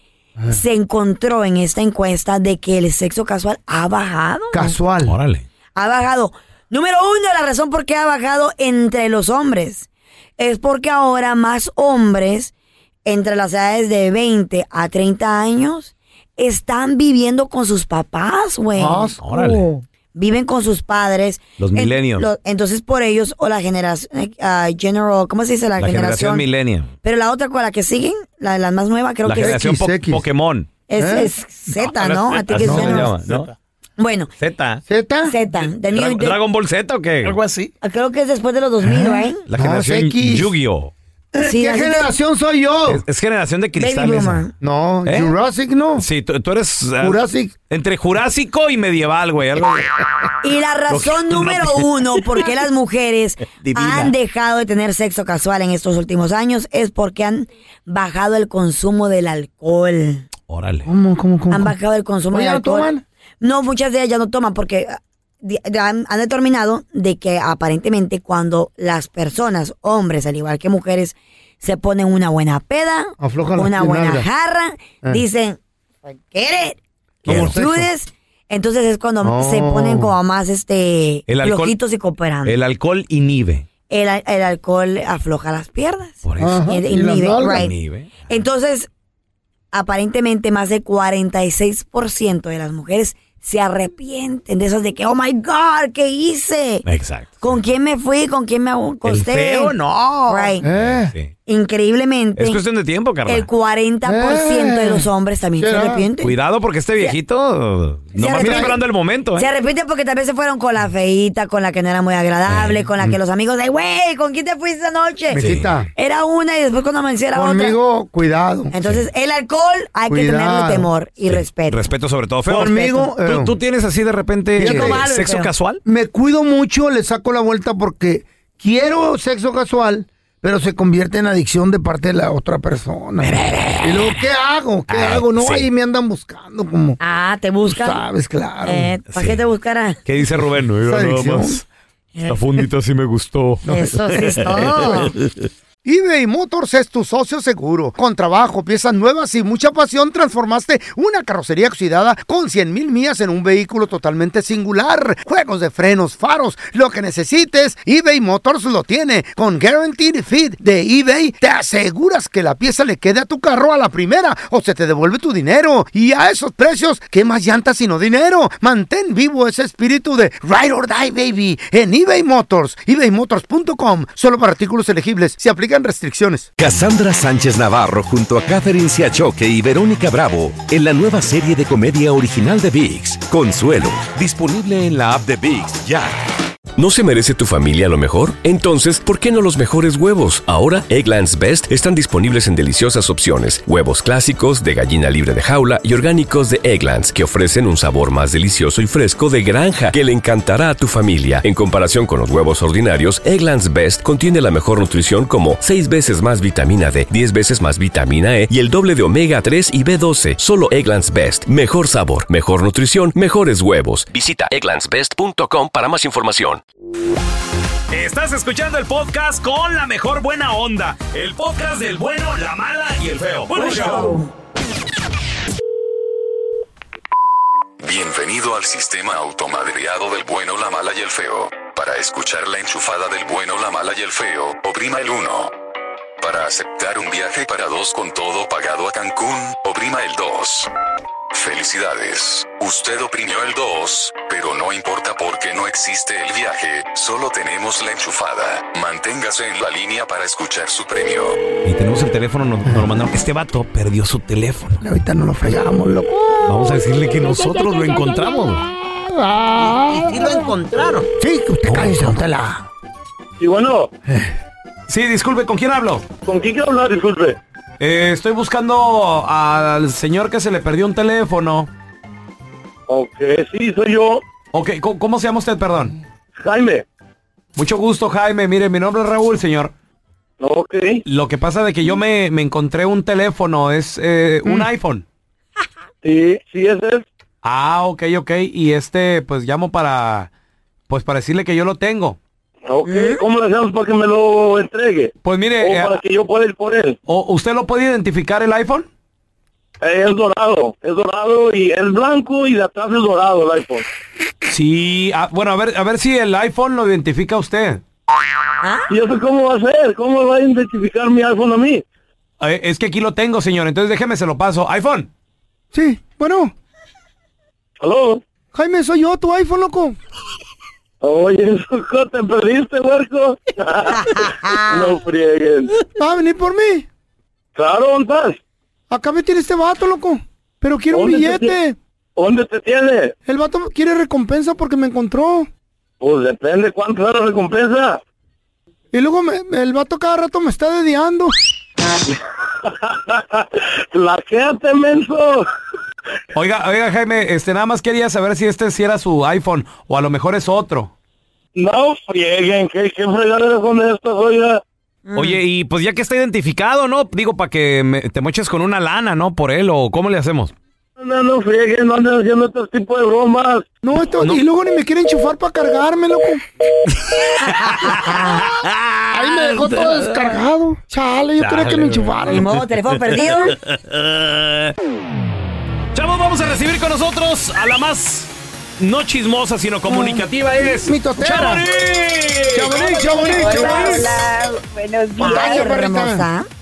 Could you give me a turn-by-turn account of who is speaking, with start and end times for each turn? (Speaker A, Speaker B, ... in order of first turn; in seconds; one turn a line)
Speaker A: 0.5-4.7
Speaker B: 4.5-5.2
Speaker C: 5.0-5.5
Speaker A: 5.8-12.5
Speaker A: 13.1-19.1
Speaker B: 18.8-19.8
Speaker C: 19.2-19.7
Speaker A: 20.1-26.5
Speaker C: 21.6-22.3
Speaker C: 25.8-26.9
Speaker A: 27.0-29.7
Speaker C: 29.2-30.7
Speaker B: 29.4-30.2
Speaker A: 30.9-33.1
Speaker B: 31.0-31.3
Speaker C: 31.8-33.5
Speaker B: 32.6-33.4
Speaker D: 32.9-33.5
Speaker A: 34.0-34.3
Speaker C: 34.4-34.8
Speaker B: 34.9-35.4
Speaker A: 35.3-36.4
Speaker C: 35.6-37.4
Speaker D: 37.2-37.7
Speaker A: 37.8-39.4
Speaker B: 38.8-40.5
Speaker C: 39.5-40.9
Speaker B: 41.3-43.0
Speaker A: 41.4-42.1
Speaker C: 42.9-44.4
Speaker A: 43.8-44.5
Speaker B: 44.6-46.1
Speaker C: 45.1-45.4
Speaker C: 46.0-50.0
Speaker B: 47.0-47.5
Speaker A: 50.4-60.3
Speaker C: 50.9-52.4
Speaker C: 53.6-54.1
Speaker C: 60.5-60.9
Speaker B: 60.9-61.8
Speaker A: 61.5-62.9
Speaker B: 62.3-63.0
Speaker A: 63.4-82.6
Speaker B: 73.2-74.3
Speaker C: 77.3-77.6
Speaker B: 77.3-77.9
Speaker B: 79.2-80.1
Speaker C: 81.3-81.8
Speaker C: 82.4-83.7
Speaker A: 83.9-87.7
Speaker C: 86.2-86.6
Speaker B: 86.4-87.7
Speaker C: 87.5-88.1
Speaker A: 88.3-88.9
Speaker A: 89.7-96.8
Speaker C: 96.9-97.5
Speaker A: 97.4-99.8
Speaker C: 99.0-101.3
Speaker A: 100.3-100.6
Speaker B: 100.6-101.1
Speaker A: 101.5-102.6
Speaker C: 102.4-103.5
Speaker A: 103.3-106.3
Speaker B: 104.1-105.1
Speaker B: 105.6-106.0
Speaker C: 106.2-109.5
Speaker A: 108.2-108.8
Speaker B: 108.3-108.8
Speaker A: 109.4-117.8
Speaker C: 112.5-112.8
Speaker B: 115.3-115.9
Speaker C: 115.4-115.7
Speaker B: 117.3-118.7
Speaker A: 118.7-121.8
Speaker B: 120.1-120.9
Speaker C: 121.2-125.8
Speaker B: 122.5-123.5
Speaker B: 124.6-125.1
Speaker A: 124.6-125.5
Speaker B: 125.8-137.0
Speaker C: 133.2-134.2
Speaker C: 134.9-135.7
Speaker A: 137.0-138.0
Speaker B: 137.7-138.9
Speaker A: 138.6-140.0
Speaker C: 139.1-139.4
Speaker C: 140.1-141.6
Speaker B: 140.8-141.6
Speaker C: 142.3-145.2
Speaker A: 143.7-145.1
Speaker B: 143.7-144.5
Speaker B: 145.8-176.5
Speaker E: 176.6-186.2
Speaker F: 186.8-216.6
Speaker C: 217.9-224.2
Speaker A: 223.5-224.3
Speaker G: 227.8-235.5
Speaker G: 236.2-240.7
Speaker G: 241.3-251.4
Speaker C: 251.7-254.8
Speaker B: 254.8-256.8
Speaker C: 256.4-258.6
Speaker B: 259.0-260.3
Speaker D: 259.6-261.1
Speaker B: 261.2-262.7
Speaker C: 261.7-262.2
Speaker H: 263.4-263.9
Speaker B: 264.1-264.3
Speaker C: 264.9-266.1
Speaker H: 266.2-267.4
Speaker C: 267.8-271.7
Speaker H: 272.9-274.2
Speaker C: 274.5-275.9
Speaker H: 276.4-276.9
Speaker C: 277.6-279.7
Speaker H: 280.4-281.0
Speaker C: 281.1-285.0
Speaker H: 286.0-287.1
Speaker C: 287.4-290.3
Speaker C: 290.9-292.2
Speaker H: 292.7-297.0
Speaker A: 292.9-293.2
Speaker C: 295.2-296.0
Speaker C: 297.1-298.9
Speaker H: 299.8-303.8
Speaker C: 304.5-307.8
Speaker H: 308.9-311.8
Speaker C: 312.4-315.1
Speaker B: 315.7-316.5
Speaker H: 317.8-318.2
Speaker B: 318.5-320.0
Speaker H: 321.0-325.7
Speaker A: 323.9-325.0
Speaker B: 326.0-326.9
Speaker H: 327.6-328.4
Speaker B: 328.9-331.8
Speaker H: 330.9-331.6
Speaker H: 332.2-333.1
Speaker B: 333.3-335.5
Speaker H: 336.0-338.0
Speaker B: 338.9-341.3
Speaker H: 342.6-345.5
Speaker C: 346.3-350.9
Speaker H: 351.6-354.6
Speaker A: 355.1-355.4
Speaker C: 355.1-360.5
Speaker H: 361.0-363.7
Speaker B: 363.8-366.4
Speaker C: 366.9-370.4
Speaker A: 367.8-368.5
Speaker B: 369.1-372.5
Speaker C: 371.4-374.7
Speaker A: 372.2-373.6
Speaker C: 375.9-383.9
Speaker A: 379.9-380.2
Speaker B: 380.8-381.6
Speaker B: 382.5-384.1
Speaker I: 382.9-385.8
Speaker A: 383.6-383.9
Speaker B: 385.2-386.3
Speaker A: 385.2-386.5